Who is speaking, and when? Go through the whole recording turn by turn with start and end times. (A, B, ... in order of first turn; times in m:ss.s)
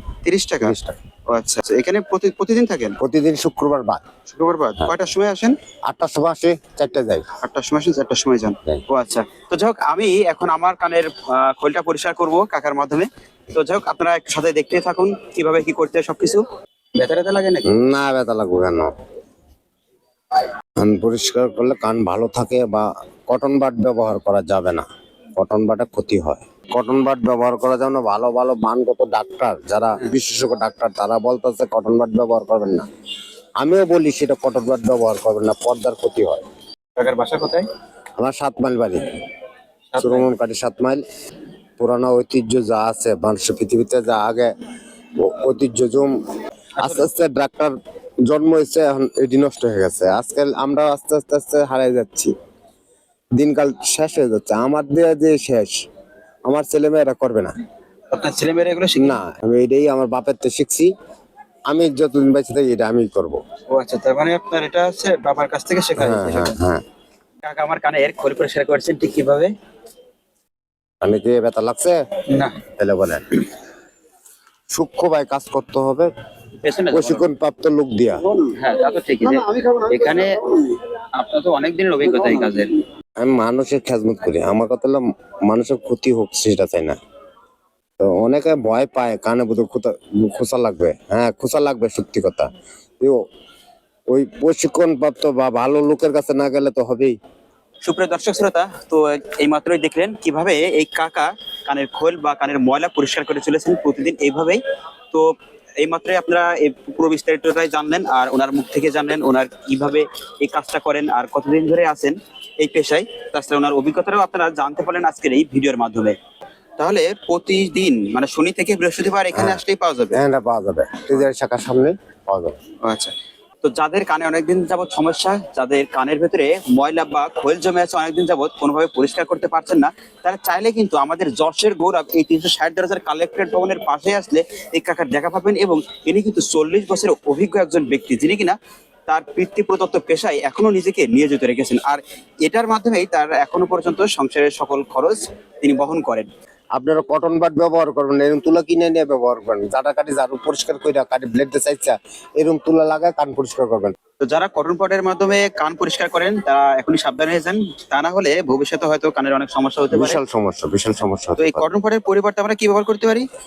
0:00.2-0:00.8 A
0:00.6-0:01.0 B
0:01.3-0:03.0 A
0:03.0-0:04.0 B
0:04.3-0:05.6 A
0:05.9-0:07.2 B
0:07.4-0:16.4 A
0:17.0-0:17.7 A
0:17.7-0:18.9 B
0:20.8-0:24.8 B
0:25.4-0:32.9 B
0:33.6-0:36.4 B
0:37.0-0:37.7 A
0:38.2-0:39.0 B
0:39.9-0:40.3 A
0:40.0-0:41.0 B
0:41.8-0:44.5 B
0:45.2-0:46.1 B
0:46.8-0:47.1 A
0:46.8-0:47.8 B
0:48.3-0:52.3 B
0:53.4-0:55.7 B
0:56.5-0:57.5 B
0:58.1-0:59.2 A
0:59.0-1:00.9 B
1:01.7-1:03.4 B
1:03.7-1:06.5 A
1:06.0-1:06.8 B
1:07.4-1:09.5 A
1:11.0-1:12.0 B
1:12.3-1:12.6 A
1:12.8-1:13.4 B
1:14.7-1:16.1 B
1:16.6-1:17.2 A
1:16.9-1:18.2 B
1:18.2-1:22.8 A
1:23.2-1:27.0 B
1:28.0-1:32.5 B
1:34.1-1:37.2 B
1:37.8-1:44.6 A
1:45.1-1:56.2 A
1:56.8-2:00.2 A
1:59.3-1:59.6 B
2:00.1-2:02.6 B
2:02.8-2:26.3 A
2:26.8-2:34.0 B
2:34.2-2:40.2 A
2:39.9-2:41.6 B
2:41.4-2:43.3 A